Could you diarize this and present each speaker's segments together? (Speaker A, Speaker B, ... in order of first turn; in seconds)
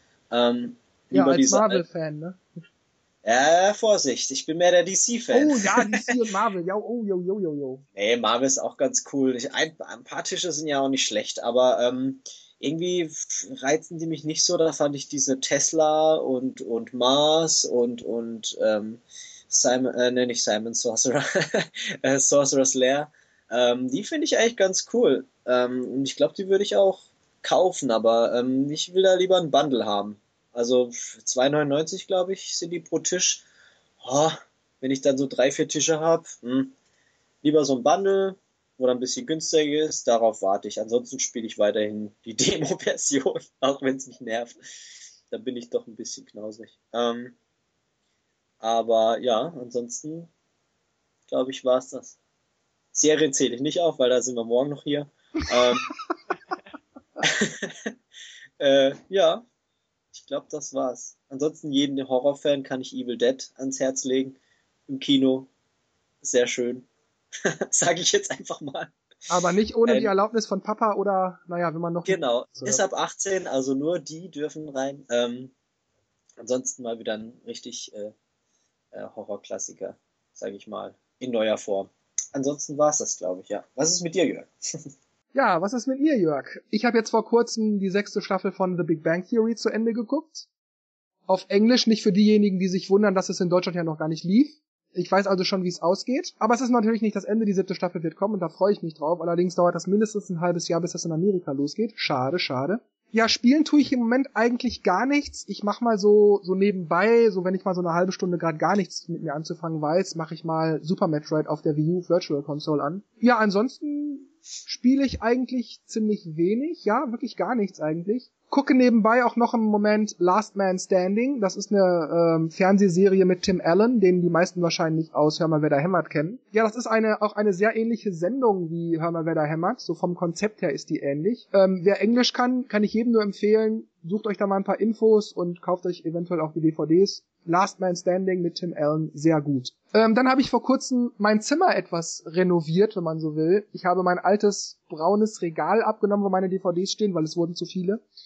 Speaker A: 0.3-1.8, 3.2-6.1, 8.0-33.4, 34.0-36.7, 37.4-44.5, 45.3-47.4, 48.6-50.3, 51.3-52.2, 52.9-55.9, 57.2-57.9, 58.6-59.5, 60.1-65.5, 66.2-66.9, 67.5-69.0, 69.9-70.1, 72.1-75.5, 76.4-78.1, 78.9-84.9
Speaker B: 1.1-2.4, 5.3-7.8, 69.3-72.8, 85.3-90.5, 91.3-148.0